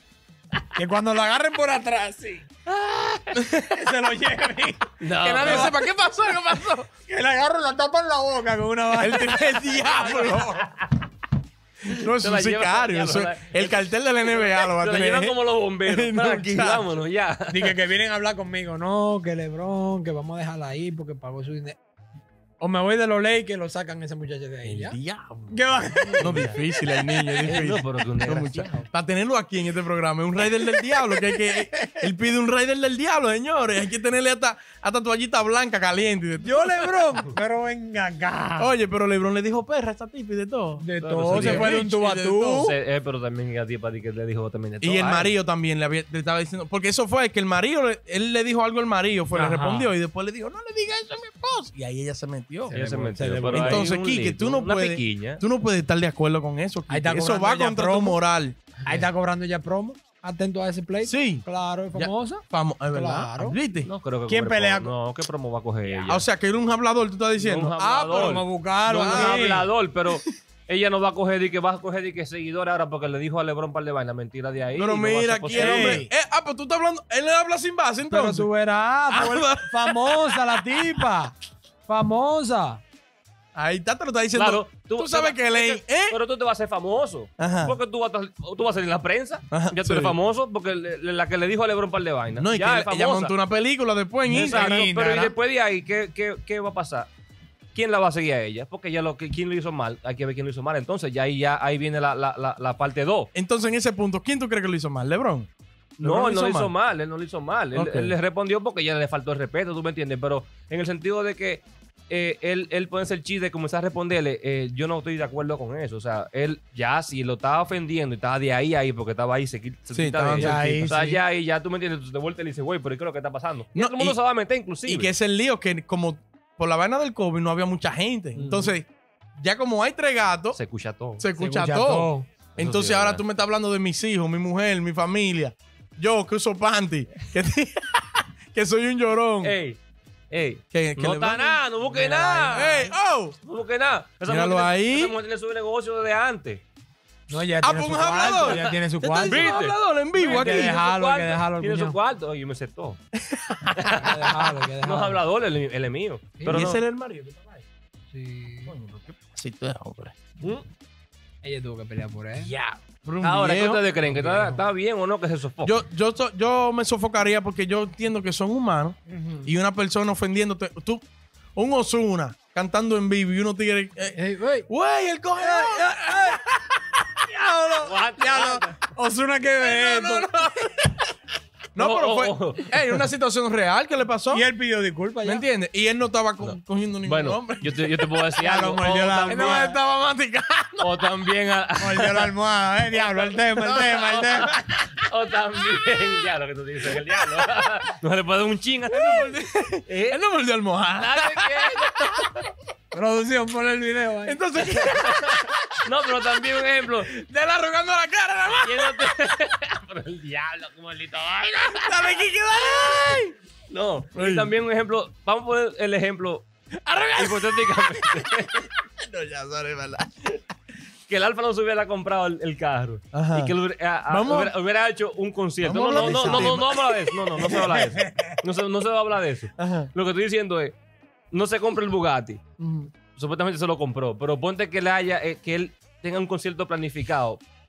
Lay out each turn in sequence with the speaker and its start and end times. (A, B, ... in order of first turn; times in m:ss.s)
0:00.7-0:02.5 A
0:02.7-0:03.4 B
0:03.6-0:05.8 A
0:05.0-0:05.8 B
0:05.2-0:06.9 C
0:07.1-0:10.2 A
0:09.0-0:10.6 C
0:09.8-0:11.0 B
0:11.9-0:17.8 B
0:11.9-0:16.9 C
0:17.5-0:21.8 A
0:22.6-0:25.0 A
0:24.6-0:25.6 C
0:25.5-0:27.6 A
0:26.2-0:37.2 C
0:26.2-0:26.5 B
0:27.4-0:28.9 B
0:30.4-0:32.0 A
0:36.4-0:38.7 A
0:38.6-0:42.7 C
0:40.8-0:42.7 A
0:41.0-0:41.7 B
0:42.6-0:45.3 B
0:44.8-0:52.7 C
0:49.3-0:49.9 A
0:52.7-0:53.8 A
0:52.7-0:55.4 B
0:53.5-0:59.0 C
0:56.9-0:58.2 A
0:58.8-1:03.6 A
1:01.0-1:03.9 C
1:03.8-1:06.3 B
1:04.3-1:04.9 A
1:06.0-1:09.5 C
1:07.4-1:16.0 B
1:08.1-1:09.7 A
1:14.8-1:18.5 C
1:15.5-1:16.1 A
1:18.1-1:21.3 A
1:19.1-1:21.0 C
1:21.9-1:22.8 A
1:23.5-1:26.2 C
1:24.3-1:33.3 B
1:27.4-1:27.8 C
1:29.5-1:30.2 C
1:32.4-1:34.9 C
1:34.3-1:35.3 A
1:34.4-1:37.1 B
1:37.7-1:43.3 B
1:43.3-1:45.5 C
1:46.0-2:05.1 B
1:46.0-1:46.7 C
1:47.7-1:48.2 C
1:59.9-2:01.0 C
2:00.4-2:01.2 A
2:03.7-2:04.2 C
2:04.8-2:10.6 C
2:08.4-2:08.7 A
2:10.5-2:11.2 B
2:11.2-2:19.6 C
2:11.4-2:12.3 A
2:12.6-2:13.2 B
2:19.4-2:19.8 B
2:20.3-2:22.8 B
2:20.7-2:21.6 C
2:21.9-2:22.9 A
2:22.4-2:23.4 C
2:23.4-2:26.6 B
2:24.2-2:25.1 C
2:27.3-2:29.6 A
2:27.6-2:30.8 C
2:28.4-2:33.0 B
2:30.2-2:32.0 A
2:33.3-2:34.2 C
2:33.8-2:36.8 B
2:34.0-2:35.2 A
2:36.4-2:36.7 A
2:36.5-2:37.6 C
2:38.1-2:38.7 A
2:38.7-2:40.1 C
2:40.4-2:40.7 B
2:41.4-2:42.5 A
2:42.4-2:43.8 C
2:43.2-2:45.8 B
2:44.1-2:44.6 A
2:45.6-2:51.0 C
2:49.1-2:49.5 A
2:51.5-2:56.4 C
2:54.1-2:54.7 A
2:55.4-3:00.9 A
2:57.8-2:58.8 B
2:59.6-3:00.9 C
3:01.7-3:04.4 C
3:01.8-3:02.8 B
3:04.3-3:05.4 A
3:05.2-3:08.1 C
3:06.4-3:09.6 B
3:08.4-3:09.8 A
3:09.3-3:11.0 C
3:10.8-3:12.3 B
3:11.8-3:14.6 A
3:12.9-3:13.4 B
3:13.6-3:14.4 C
3:14.0-3:19.3 B
3:18.9-3:22.3 C
3:19.9-3:20.2 B
3:21.0-3:22.5 B
3:22.9-3:24.4 A
3:24.2-3:25.8 C
3:24.8-3:27.1 B
3:27.0-3:29.1 C
3:28.6-3:32.1 B
3:31.7-3:33.3 C
3:33.7-3:36.4 B
3:34.1-3:34.5 C
3:36.8-3:40.2 C
3:37.1-3:38.7 B
3:41.1-3:50.8 B
3:43.1-3:43.6 C
3:44.1-3:44.5 C
3:45.6-3:47.7 C
3:45.9-3:46.6 A
3:47.4-3:48.4 A
3:49.6-3:49.9 C
3:51.3-3:52.4 B
3:52.6-3:52.9 C
3:53.1-3:57.4 B